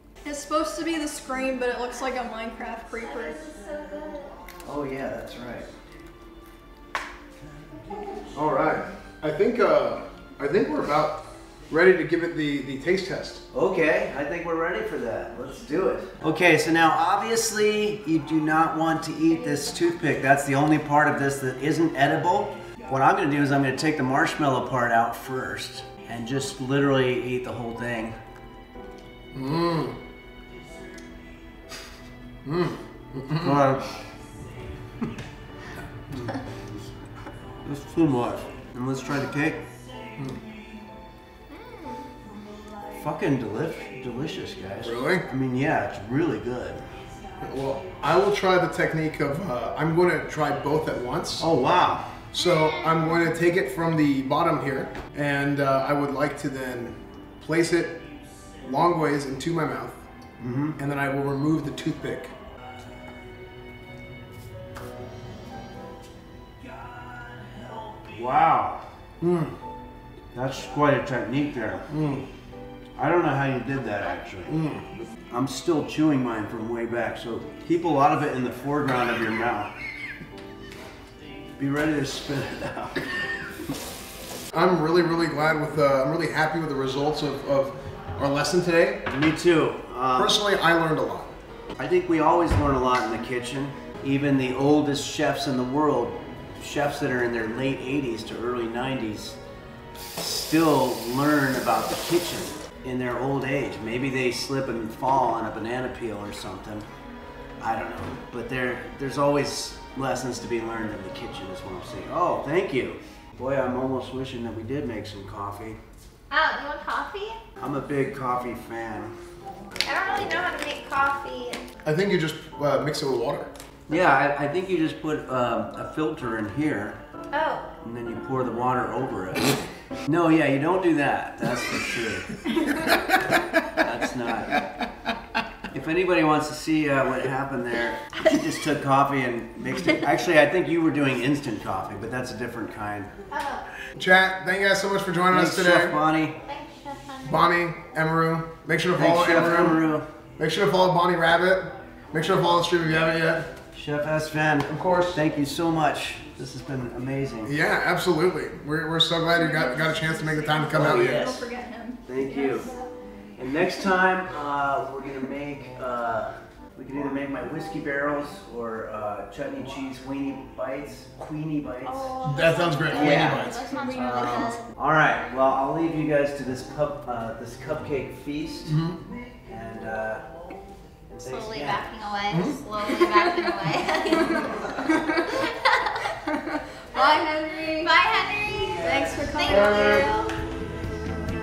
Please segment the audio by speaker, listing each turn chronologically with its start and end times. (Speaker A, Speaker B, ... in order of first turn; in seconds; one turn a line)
Speaker A: 0.2-3.4
Speaker B: 3.0-4.4
Speaker C: 4.6-5.7
Speaker B: 7.9-8.2
Speaker D: 8.3-13.4
Speaker C: 13.5-28.1
Speaker D: 29.3-29.9
Speaker D: 32.4-33.6
Speaker C: 33.4-34.0
Speaker C: 37.6-39.6
Speaker B: 41.5-42.1
Speaker C: 42.9-46.8
Speaker D: 44.8-45.2
Speaker D: 47.4-51.5
Speaker C: 51.4-52.1
Speaker D: 52.3-58.0
Speaker B: 52.4-53.0
Speaker D: 58.6-60.0
Speaker C: 60.4-60.8
Speaker D: 60.8-62.3
Speaker C: 68.1-69.5
Speaker C: 70.3-71.8
Speaker D: 71.9-72.2
Speaker C: 73.0-74.6
Speaker D: 74.5-74.9
Speaker C: 75.3-79.7
Speaker C: 81.6-83.0
Speaker D: 84.5-89.0
Speaker C: 89.1-90.4
Speaker D: 90.2-91.3
Speaker C: 91.8-99.4
Speaker C: 100.2-106.8
Speaker C: 107.6-115.8
Speaker B: 116.3-117.4
Speaker C: 117.6-119.1
Speaker B: 119.8-121.6
Speaker C: 120.1-120.5
Speaker D: 121.8-123.5
Speaker C: 123.9-127.0
Speaker B: 127.3-127.7
Speaker C: 127.8-129.5
Speaker C: 130.0-132.4
Speaker C: 133.6-134.6
Speaker C: 135.7-143.1
Speaker B: 143.3-143.6
Speaker D: 143.9-146.0
Speaker C: 145.3-146.4
Speaker B: 146.4-147.4
Speaker D: 147.2-149.8
Speaker C: 148.9-150.1
Speaker D: 150.4-153.5
Speaker C: 153.7-157.5
Speaker D: 154.7-155.2
Speaker D: 157.4-161.3
Speaker A: 159.3-162.7
Speaker C: 160.7-161.4
Speaker C: 162.1-162.7
Speaker C: 163.4-172.1
Speaker B: 171.8-174.7
Speaker D: 172.2-173.7
Speaker C: 172.9-178.8
Speaker A: 173.7-174.6
Speaker D: 178.7-179.0
Speaker C: 179.4-180.2
Speaker C: 181.1-181.9
Speaker B: 181.2-186.1
Speaker D: 182.3-182.6
Speaker A: 184.3-185.4
Speaker A: 186.3-187.9
Speaker B: 186.9-190.3
Speaker C: 188.5-190.0
Speaker A: 188.8-189.7
Speaker D: 189.5-190.1